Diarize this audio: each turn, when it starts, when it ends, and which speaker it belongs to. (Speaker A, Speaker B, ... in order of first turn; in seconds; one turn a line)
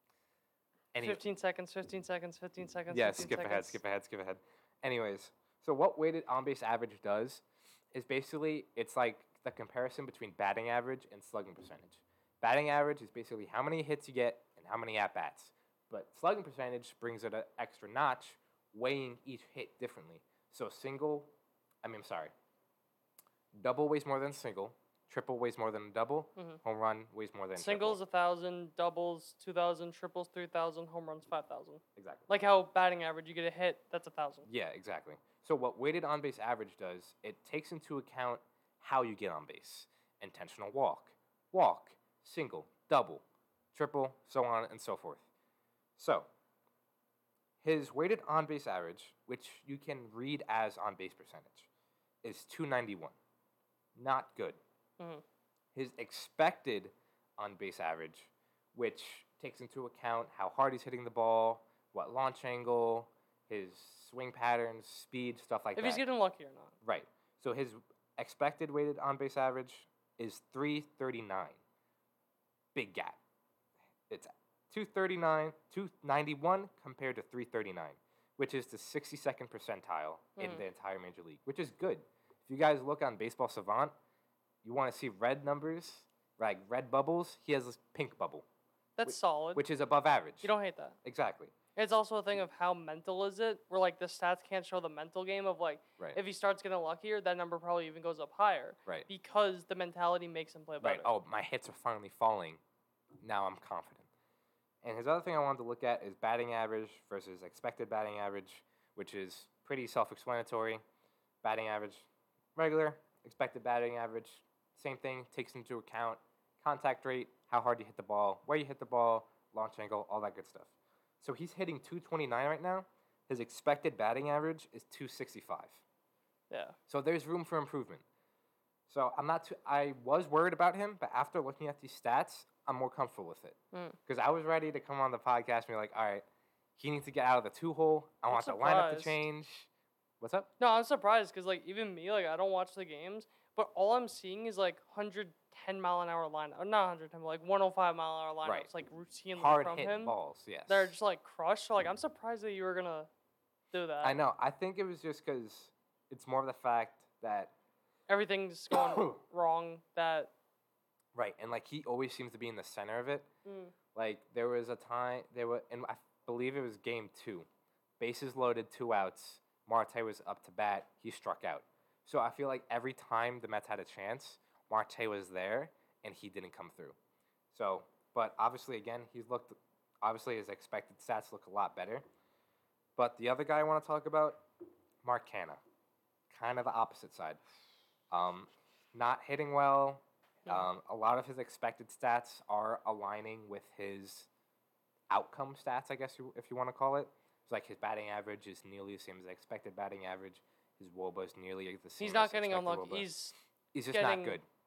Speaker A: 0.9-1.2
Speaker B: 1.0-3.8
Speaker A: 2.9-21.3
Speaker A: 21.8-22.3
Speaker A: 23.5-28.0
Speaker B: 27.6-34.5
Speaker A: 32.0-32.3
Speaker A: 34.5-45.2
Speaker A: 46.0-46.3
Speaker A: 47.6-51.7
Speaker A: 52.2-53.1
Speaker A: 54.0-54.6
Speaker A: 55.8-66.0
Speaker B: 65.8-66.7
Speaker A: 66.8-71.6
Speaker A: 72.8-73.2
Speaker A: 74.1-83.9
Speaker B: 80.4-80.6
Speaker A: 84.6-88.5
Speaker B: 89.0-89.6
Speaker A: 89.0-90.5
Speaker B: 90.4-91.0
Speaker A: 91.0-91.5
Speaker B: 91.8-101.1
Speaker A: 100.8-102.6
Speaker A: 103.2-104.1
Speaker A: 104.8-110.8
Speaker A: 111.4-125.8
Speaker B: 126.5-126.8
Speaker A: 126.9-128.0
Speaker A: 128.9-136.2
Speaker A: 136.8-139.7
Speaker B: 138.3-139.2
Speaker A: 140.2-140.5
Speaker B: 140.6-150.1
Speaker A: 148.4-148.7
Speaker A: 149.3-150.9
Speaker B: 150.7-153.1
Speaker B: 153.7-154.2
Speaker A: 154.0-157.5
Speaker B: 158.1-160.3
Speaker A: 158.7-159.2
Speaker A: 161.1-163.3
Speaker B: 163.4-163.7
Speaker A: 163.9-167.5
Speaker A: 168.0-177.0
Speaker A: 177.5-182.0
Speaker A: 183.0-184.4
Speaker A: 185.0-185.6
Speaker A: 186.3-187.4
Speaker A: 188.1-194.3
Speaker A: 195.1-203.1
Speaker B: 202.0-203.3
Speaker A: 203.7-204.4
Speaker B: 203.9-204.4